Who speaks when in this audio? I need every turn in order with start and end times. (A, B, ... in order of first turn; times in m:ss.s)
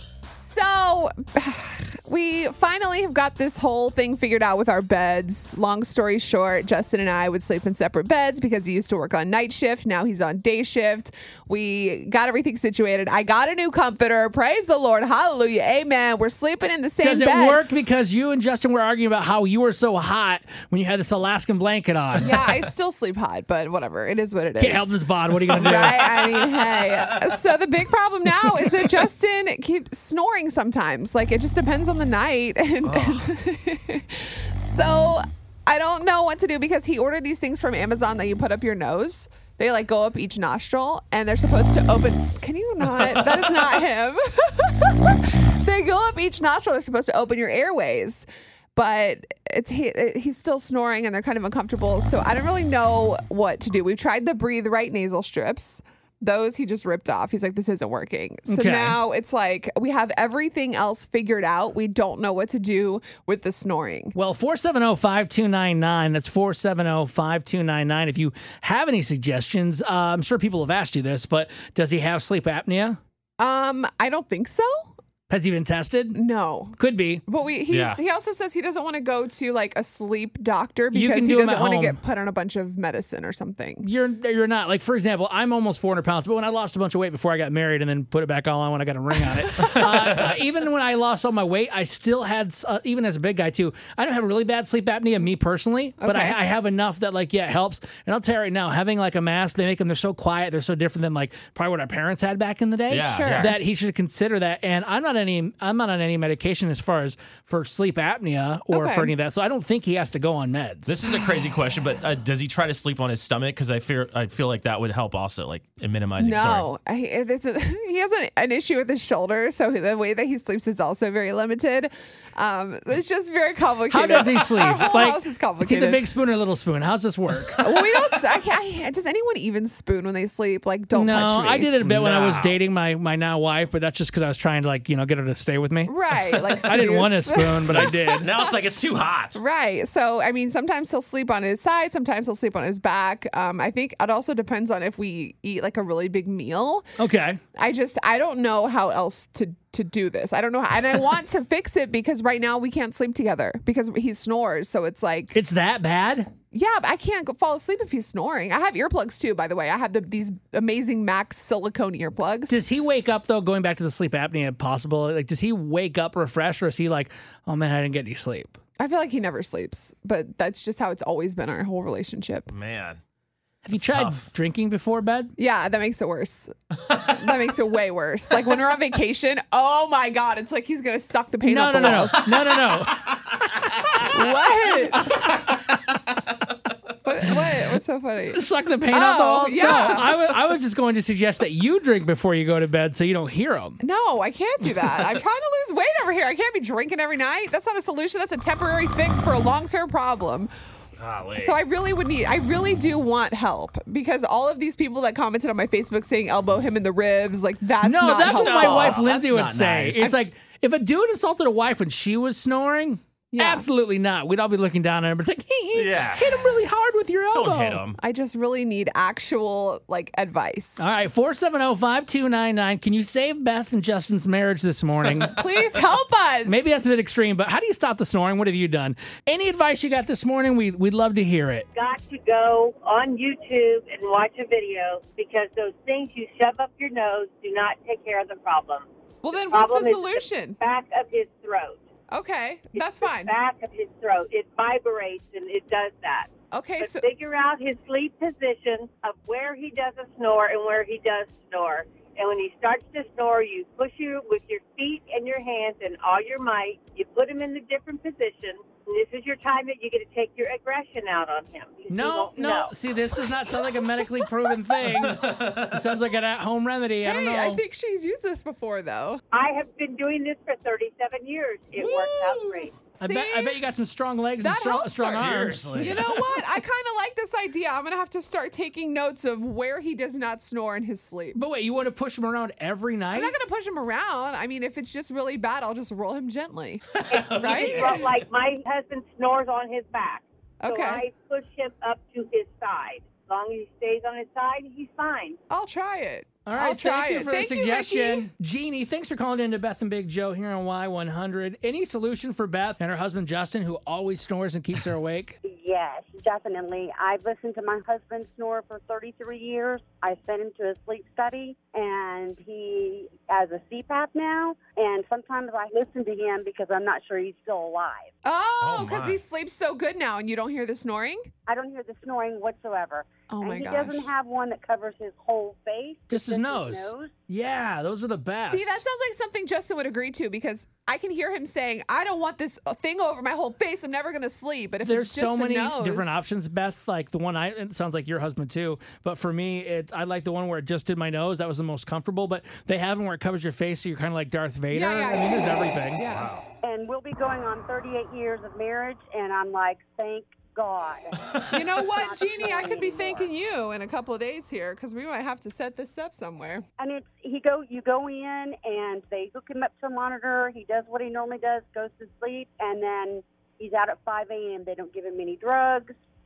0:00.4-0:17.6 A
0:17.0-0:22.4 B
0:22.2-0:25.0 A
0:24.6-0:26.1 B
0:25.5-1:04.2 A
0:25.7-0:27.3 C
0:32.8-0:33.3 C
0:58.5-0:59.0 B
1:04.1-1:13.0 B
1:13.4-1:14.9 A
1:15.3-1:16.2 B
1:16.1-1:23.8 A
1:16.8-1:17.2 B
1:17.7-1:18.0 C
1:20.9-1:22.0 B
1:23.8-1:51.0 B
1:36.0-1:36.4 A
1:42.9-1:43.5 C
1:43.1-1:43.5 A
1:48.7-1:49.1 A
1:50.8-1:56.7 C
1:56.2-2:06.0 A
2:03.9-2:07.6 B
2:07.6-2:11.7 A
2:10.9-2:15.9 B
2:11.8-2:12.6 C
2:15.8-2:18.6 A
2:16.6-2:18.3 B
2:17.7-2:19.4 C
2:19.3-2:26.8 A
2:27.0-2:27.4 B
2:27.5-2:35.4 A
2:35.3-2:36.3 B
2:36.5-2:42.6 A
2:42.5-2:48.6 B
2:48.8-2:52.5 A
2:52.5-2:53.0 C
2:53.6-2:55.3 B
2:53.7-2:54.3 C
2:55.4-3:02.6 A
3:01.4-3:04.1 B
3:04.1-3:05.3 A
3:05.0-3:05.5 B
3:07.0-3:10.2 A
3:08.3-3:13.8 B
3:13.8-3:20.5 A
3:21.0-3:21.6 C
3:21.4-3:29.0 A
3:27.8-3:37.8 B
3:28.2-3:30.0 C
3:33.3-3:33.7 A
3:35.7-3:36.6 C
3:37.3-3:38.0 C
3:38.0-3:40.8 A
3:40.8-3:45.4 B
3:45.4-3:46.8 A
3:46.4-3:51.7 B
3:51.7-4:01.8 D
3:59.2-4:00.6 A
4:02.1-4:03.3 A
4:02.8-4:22.8 D
4:06.5-4:07.1 A
4:21.9-4:27.6 B
4:23.6-4:24.3 A
4:24.8-4:25.8 C
4:27.0-4:29.2 A
4:29.3-4:32.7 D
4:31.8-4:33.6 A
4:33.0-4:36.4 B
4:34.4-4:41.4 A
4:35.0-4:36.2 C
4:41.3-4:43.4 B
4:43.1-4:48.1 A
4:47.0-4:48.0 C
4:47.1-4:55.4 D
4:50.6-4:51.0 A
4:55.5-4:58.3 A
4:56.4-5:05.4 B
5:05.4-5:18.1 E
5:18.2-5:21.3 A
5:18.6-5:19.2 C
5:21.5-5:27.1 E
5:23.3-5:24.1 A
5:26.1-5:28.8 B
5:28.4-5:36.2 A
5:34.8-5:46.0 B
5:44.7-5:46.3 A
5:46.1-5:46.4 C
5:46.6-5:51.2 E
5:51.5-5:56.6 A
5:51.8-5:53.3 E
5:56.8-6:05.9 E